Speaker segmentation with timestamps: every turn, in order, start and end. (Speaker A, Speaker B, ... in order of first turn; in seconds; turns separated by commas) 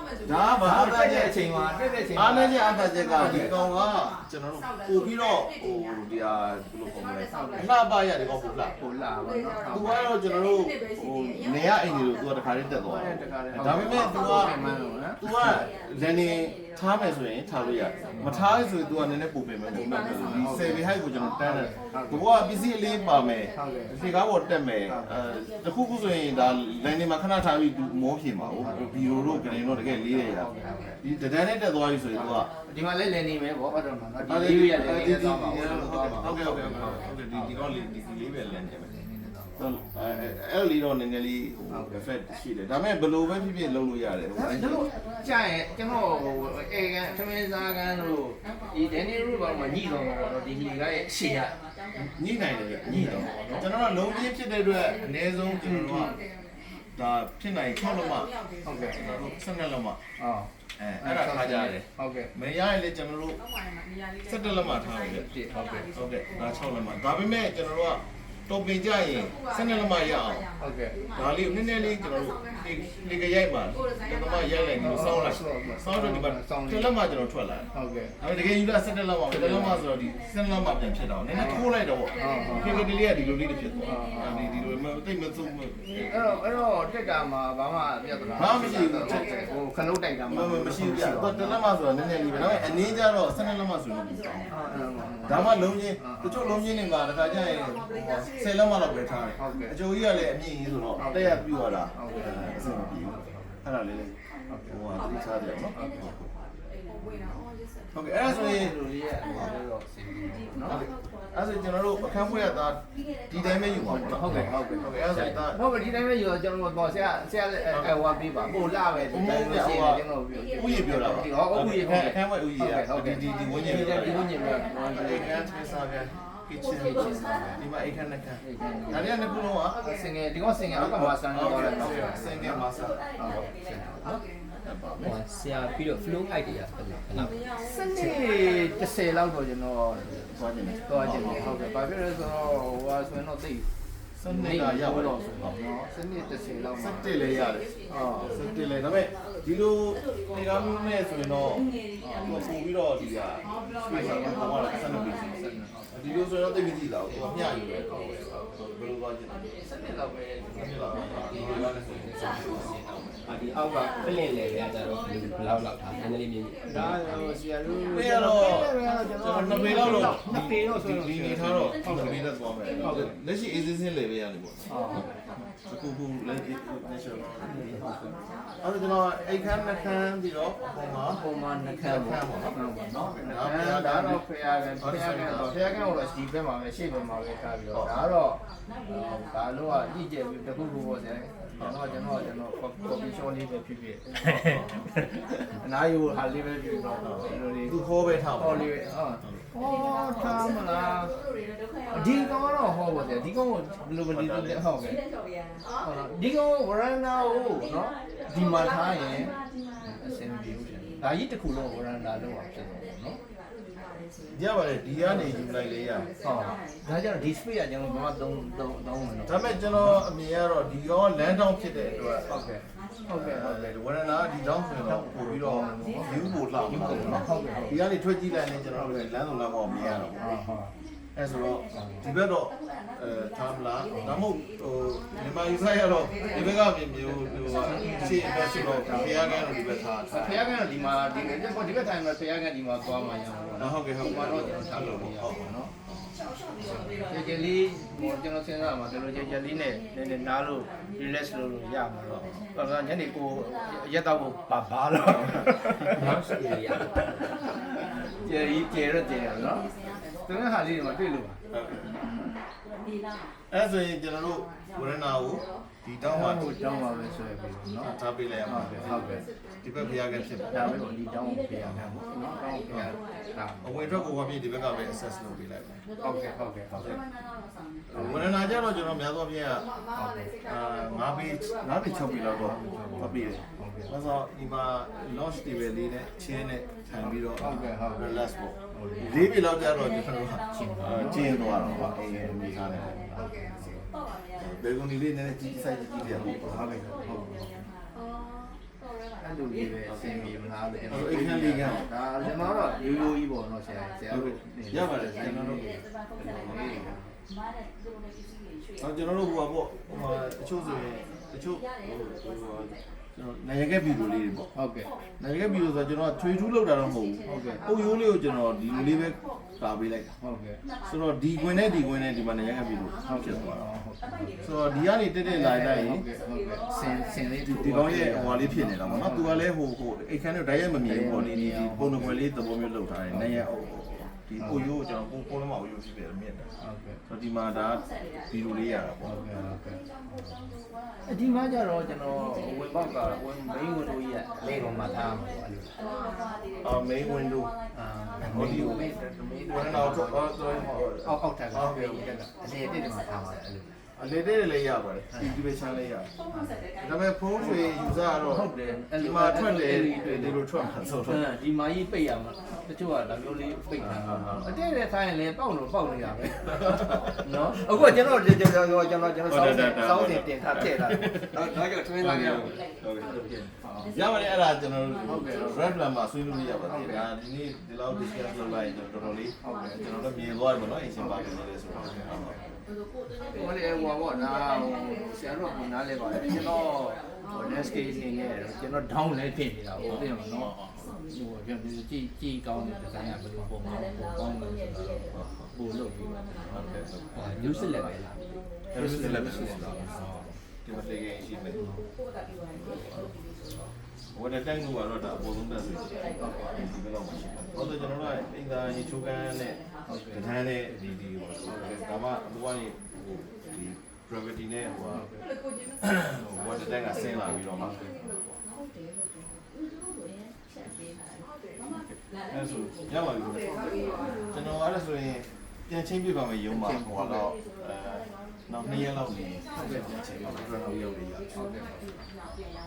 Speaker A: 0.2-1.4, Speaker B: 0.6-2.6, Speaker A: 2.1-8.8, Speaker B: 3.2-3.5, Speaker B: 7.3-7.7, Speaker B: 8.8-10.0, Speaker A: 9.7-14.6, Speaker B: 12.9-15.7, Speaker A: 15.2-30.5, Speaker B: 18.1-18.5, Speaker B: 20.1-22.3, Speaker B: 23.6-23.9, Speaker B: 24.9-25.2, Speaker B: 28.4-31.0, Speaker A: 31.0-32.5, Speaker B: 32.1-37.8, Speaker A: 34.3-38.9, Speaker B: 38.8-40.4, Speaker A: 39.6-44.9, Speaker B: 41.7-42.0, Speaker B: 44.4-51.5, Speaker A: 52.0-56.2, Speaker B: 52.9-53.7, Speaker B: 55.6-56.2, Speaker A: 57.0-58.3, Speaker B: 58.6-59.0, Speaker A: 58.8-60.0, Speaker B: 60.2-60.5, Speaker A: 60.8-63.4, Speaker B: 61.0-62.3, Speaker A: 64.2-65.3, Speaker B: 64.9-65.9, Speaker A: 65.9-70.5, Speaker B: 70.6-71.0, Speaker A: 71.2-77.7, Speaker B: 74.8-76.9, Speaker B: 77.7-78.2, Speaker A: 78.2-86.5, Speaker B: 79.3-79.8, Speaker B: 81.4-81.6, Speaker B: 82.2-82.8, Speaker B: 83.8-84.7, Speaker B: 86.1-91.6, Speaker A: 88.4-89.3, Speaker A: 90.3-94.5, Speaker B: 92.3-92.9, Speaker B: 94.5-96.5, Speaker A: 95.2-106.3, Speaker B: 99.4-99.8, Speaker B: 101.0-103.6, Speaker B: 104.5-104.8, Speaker B: 105.7-106.2, Speaker A: 107.9-108.8, Speaker B: 108.2-110.8, Speaker A: 110.6-115.6, Speaker B: 113.8-125.4, Speaker A: 117.7-118.0, Speaker A: 119.1-124.3, Speaker A: 124.9-129.8, Speaker B: 126.7-127.6, Speaker B: 128.4-129.1, Speaker B: 129.8-132.7, Speaker A: 130.7-133.0, Speaker B: 133.2-134.2, Speaker A: 134.1-135.2, Speaker C: 135.0-137.4, Speaker B: 137.6-140.3, Speaker A: 140.3-141.5, Speaker B: 140.9-143.7, Speaker A: 144.2-145.6, Speaker B: 144.3-147.3, Speaker A: 146.8-151.7, Speaker B: 147.9-148.4, Speaker B: 152.0-152.5, Speaker A: 152.2-159.6, Speaker B: 153.9-155.9, Speaker B: 157.9-158.5, Speaker B: 159.6-163.0, Speaker A: 160.5-163.2, Speaker C: 163.3-167.3, Speaker B: 166.7-172.2, Speaker A: 167.9-177.9, Speaker C: 169.7-170.0, Speaker B: 172.8-173.1, Speaker B: 174.7-175.1, Speaker B: 177.4-178.1, Speaker A: 178.6-181.2, Speaker B: 181.2-195.0, Speaker A: 181.8-184.2, Speaker A: 184.8-185.9, Speaker A: 191.6-191.9, Speaker A: 194.3-194.6, Speaker B: 195.6-201.1, Speaker A: 197.0-198.7, Speaker B: 201.9-205.0, Speaker A: 204.1-204.6, Speaker B: 205.8-209.3, Speaker B: 209.8-213.2, Speaker A: 214.3-216.1, Speaker B: 216.2-220.0, Speaker A: 219.3-222.5, Speaker B: 222.3-223.8, Speaker A: 223.1-230.2, Speaker B: 224.8-227.8, Speaker B: 228.7-229.1, Speaker B: 229.8-230.7, Speaker A: 231.2-240.4, Speaker B: 231.7-232.1, Speaker B: 233.9-234.2, Speaker B: 236.2-239.4, Speaker B: 240.1-245.7, Speaker A: 243.6-246.1, Speaker B: 246.6-256.1, Speaker A: 252.1-252.4, Speaker C: 255.9-257.4, Speaker B: 258.2-259.7, Speaker B: 260.3-261.4, Speaker A: 261.5-262.0, Speaker A: 263.5-266.5, Speaker B: 266.1-267.9, Speaker A: 267.8-270.8, Speaker B: 268.5-269.2, Speaker B: 270.5-274.1, Speaker A: 271.6-272.0, Speaker A: 272.7-272.9, Speaker A: 273.6-275.8, Speaker B: 276.0-276.9, Speaker A: 276.7-277.0, Speaker B: 277.9-278.3, Speaker A: 277.9-279.7, Speaker B: 279.9-280.3, Speaker A: 280.4-293.1, Speaker B: 282.4-283.9, Speaker B: 287.0-288.1, Speaker B: 288.7-289.3, Speaker B: 290.5-293.9, Speaker A: 294.4-296.7, Speaker B: 296.1-297.7, Speaker B: 299.2-305.8, Speaker A: 299.9-300.3, Speaker A: 300.9-302.4, Speaker A: 304.1-306.9, Speaker B: 306.4-307.1, Speaker A: 308.8-314.5, Speaker B: 314.6-314.9, Speaker A: 315.2-320.1, Speaker B: 317.2-317.7, Speaker B: 320.2-320.6, Speaker A: 320.9-323.6, Speaker B: 323.0-324.5, Speaker A: 324.4-326.0, Speaker B: 325.3-329.5, Speaker A: 327.4-336.5, Speaker B: 330.9-332.2, Speaker B: 333.1-333.4, Speaker B: 334.4-334.7, Speaker B: 336.6-337.0, Speaker A: 337.1-339.1, Speaker B: 339.0-340.5, Speaker B: 341.1-345.7, Speaker C: 344.4-345.1, Speaker A: 346.6-347.6, Speaker B: 347.8-352.4, Speaker C: 348.2-348.7, Speaker A: 348.2-348.9, Speaker A: 349.5-352.1, Speaker C: 349.7-350.1, Speaker C: 352.4-353.7, Speaker A: 354.0-356.1, Speaker B: 356.3-356.6, Speaker A: 356.8-361.3, Speaker B: 357.4-360.4, Speaker B: 361.1-372.6, Speaker A: 363.8-364.5, Speaker A: 366.5-367.2, Speaker A: 369.3-382.4, Speaker B: 373.2-374.0, Speaker B: 375.1-375.8, Speaker B: 376.7-377.1, Speaker B: 379.4-380.0, Speaker B: 381.0-382.4, Speaker B: 383.2-396.6, Speaker A: 389.9-390.8, Speaker A: 396.5-397.9, Speaker B: 397.1-398.2, Speaker A: 398.7-399.9, Speaker B: 398.7-400.4, Speaker A: 400.6-401.6, Speaker B: 401.6-401.8, Speaker A: 402.6-403.1, Speaker A: 404.1-409.6, Speaker B: 406.2-406.5, Speaker B: 409.9-410.8, Speaker A: 410.1-415.1, Speaker B: 414.9-415.2, Speaker A: 415.8-417.8, Speaker B: 417.6-418.0, Speaker A: 421.6-423.6, Speaker B: 423.7-424.4, Speaker A: 424.3-431.3, Speaker B: 426.5-427.3, Speaker B: 429.6-430.6, Speaker B: 431.3-432.0